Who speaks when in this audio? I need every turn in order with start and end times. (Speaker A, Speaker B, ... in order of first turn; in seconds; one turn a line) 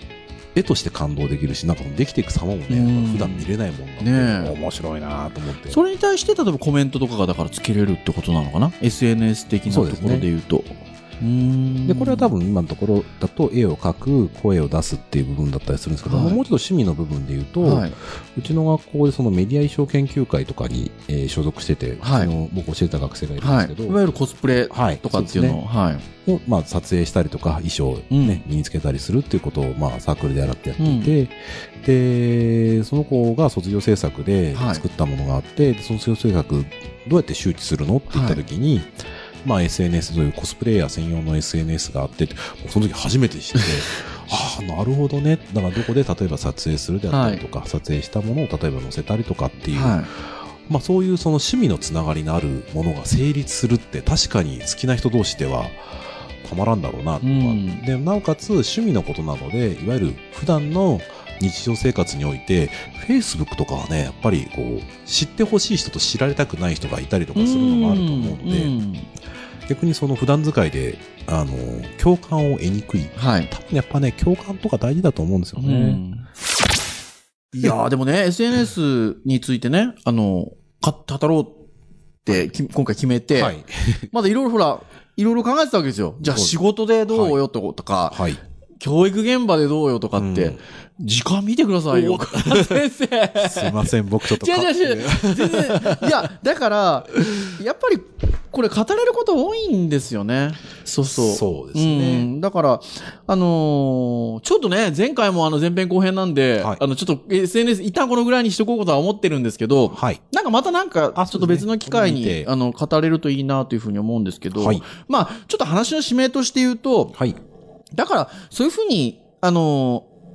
Speaker A: 0.5-5.8
Speaker B: 2.7-3.5
Speaker B: 4.0-4.5
Speaker B: 5.7-12.3
Speaker A: 9.7-10.3
Speaker A: 11.8-24.0
Speaker B: 16.1-16.4
Speaker B: 17.6-17.9
Speaker B: 22.0-22.3
Speaker B: 23.4-26.1
Speaker A: 24.7-25.6
Speaker A: 26.2-68.7
Speaker B: 28.1-28.4
Speaker B: 30.8-31.1
Speaker B: 34.5-34.8
Speaker B: 38.1-38.4
Speaker B: 47.1-47.4
Speaker B: 49.7-50.1
Speaker B: 57.2-57.8
Speaker B: 67.3-69.1
Speaker A: 69.7-76.0
Speaker B: 73.2-73.5
Speaker B: 75.6-76.2
Speaker B: 77.5-81.6
Speaker B: 82.2-83.5
Speaker A: 83.3-84.1
Speaker B: 84.1-88.2
Speaker A: 86.2-87.4
Speaker A: 88.1-88.4
Speaker B: 88.8-117.2
Speaker A: 90.2-90.6
Speaker A: 91.9-92.8
Speaker A: 93.4-96.2
Speaker A: 97.2-97.5
Speaker A: 101.1-102.3
Speaker A: 109.9-110.2
Speaker A: 111.1-112.5
Speaker A: 114.5-114.8
Speaker B: 117.9-120.1